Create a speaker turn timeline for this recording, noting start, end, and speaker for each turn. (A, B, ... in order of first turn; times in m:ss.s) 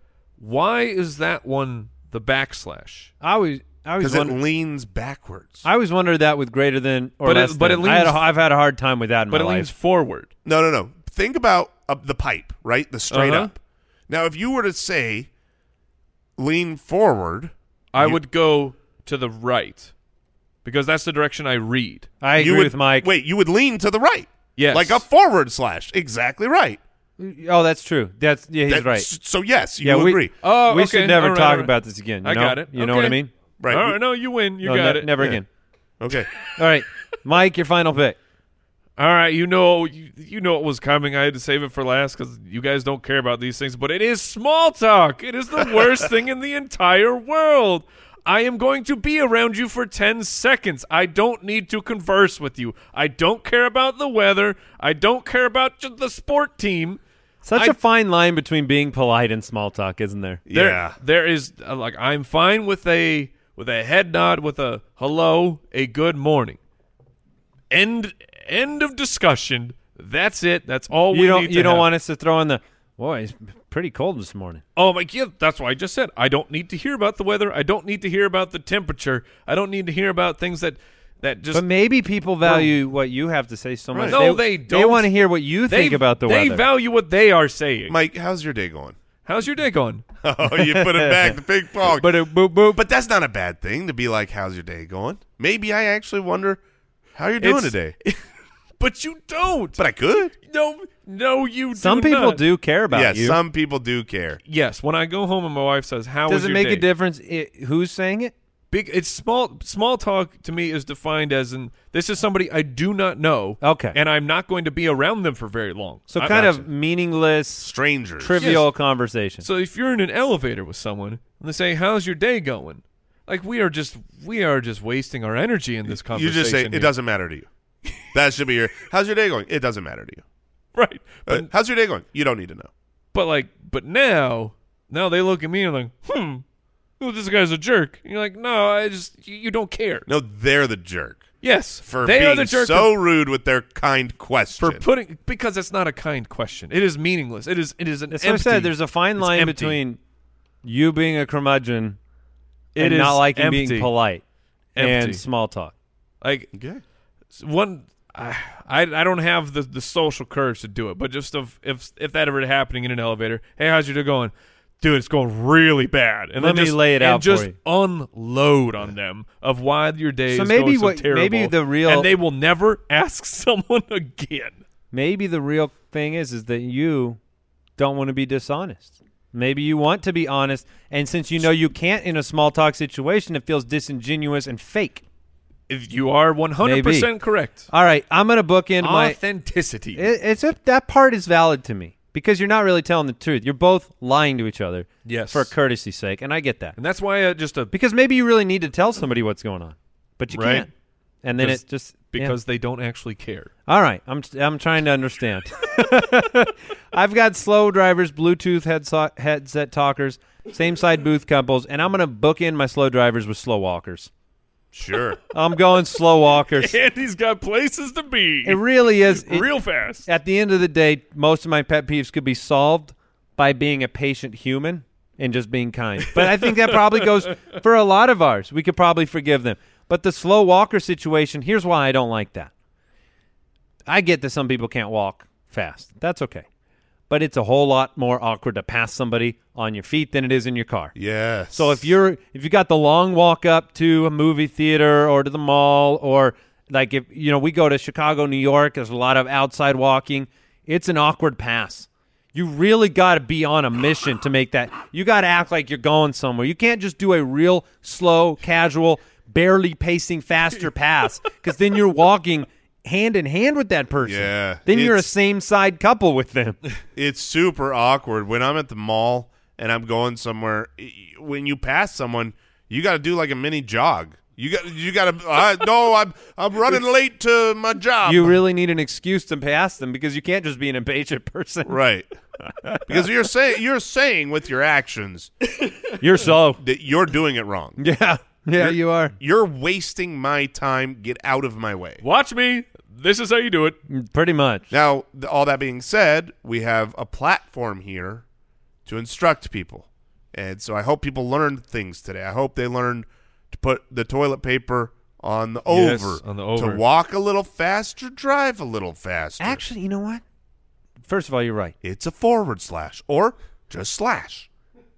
0:00.4-0:03.1 A
0:03.2-0:04.4 B
0:04.0-0:05.6 C
0:05.6-0:09.7 B
0:07.2-0:08.3 A
0:09.3-0:10.3 A
0:10.4-0:13.6 C
0:13.1-0:13.5 A
0:14.1-0:15.3 C
0:16.4-0:18.2 C
0:17.9-0:19.9 A
0:20.6-0:22.1 A
0:22.2-0:23.1 B
0:22.4-0:26.8 C
0:24.6-0:25.0 A
0:27.2-0:29.1 B
0:28.7-0:30.3 C
0:29.8-0:33.3 B
0:30.4-0:35.3 A
0:33.6-0:34.0 C
0:34.6-0:35.5 B
0:36.0-0:36.3 C
0:36.6-0:38.2 B
0:39.0-0:57.0 A
0:57.4-1:00.5 B
1:00.5-1:01.0 C
1:00.5-1:06.6 A
1:07.7-1:11.9 A
1:11.1-1:14.6 B
1:14.8-1:21.6 A
1:21.5-1:26.6 B
1:22.4-1:22.7 A
1:23.9-1:24.2 C
1:24.1-1:28.0 A
1:27.9-1:29.0 C
1:29.2-1:30.0 A
1:30.2-1:36.6 C
1:30.5-1:32.8 B
1:37.2-1:37.9 C
1:37.4-1:38.2 A
1:38.8-1:39.8 A
1:39.8-1:40.3 C
1:40.4-1:42.4 A
1:41.8-1:43.4 B
1:42.9-1:44.4 C
1:44.5-1:46.9 A
1:46.3-1:48.3 B
1:48.7-1:56.7 A
1:53.6-1:54.0 B
1:56.1-1:59.5 B
1:57.6-1:58.5 C
1:58.4-1:58.7 A
1:59.4-2:06.9 A
2:05.9-2:07.5 C
2:08.1-2:10.2 C
2:10.8-2:11.5 A
2:11.3-2:12.7 C
2:13.1-2:16.4 A
2:17.0-2:20.1 A
2:20.1-2:21.3 C
2:21.4-2:22.9 A
2:21.8-2:24.8 C
2:24.6-2:29.8 A
2:28.1-2:30.0 B
2:30.6-2:32.0 B
2:32.8-2:33.9 A
2:32.8-2:34.2 B
2:34.8-2:35.2 A
2:34.8-2:35.7 B
2:36.2-2:36.5 A
2:36.5-2:36.8 C
2:37.4-2:54.6 A
2:46.4-2:47.6 B
2:50.3-2:52.1 B
2:54.9-2:57.2 B
2:57.8-3:05.0 B
3:05.7-3:07.7 A
3:06.6-3:07.1 B
3:07.7-3:09.2 B
3:08.8-3:10.1 A
3:10.0-3:16.8 B
3:15.0-3:15.5 A
3:16.8-3:17.7 A
3:17.7-3:20.7 B
3:20.3-3:20.7 A
3:21.2-3:22.4 B
3:21.4-3:23.5 A
3:23.7-3:34.1 B
3:34.7-3:35.2 C
3:35.3-3:36.8 B
3:36.5-3:40.1 A
3:38.4-3:39.5 B
3:40.0-3:52.5 B
3:46.2-3:47.2 A
3:53.9-3:56.5 B
3:57.1-4:00.9 B
4:01.0-4:01.8 C
4:01.5-4:26.6 B
4:24.0-4:25.1 C
4:27.0-4:38.4 C
4:38.0-4:41.8 B
4:41.7-4:42.1 C
4:42.9-4:45.3 C
4:46.0-4:46.6 B
4:46.6-4:47.8 C
4:47.8-4:49.1 B
4:48.6-4:52.0 C
4:52.0-4:53.8 A
4:53.9-4:54.7 B
4:54.7-4:58.2 C
4:58.9-5:09.6 C
5:05.7-5:06.8 A
5:09.4-5:10.2 B
5:11.1-5:11.8 B
5:11.8-5:14.5 C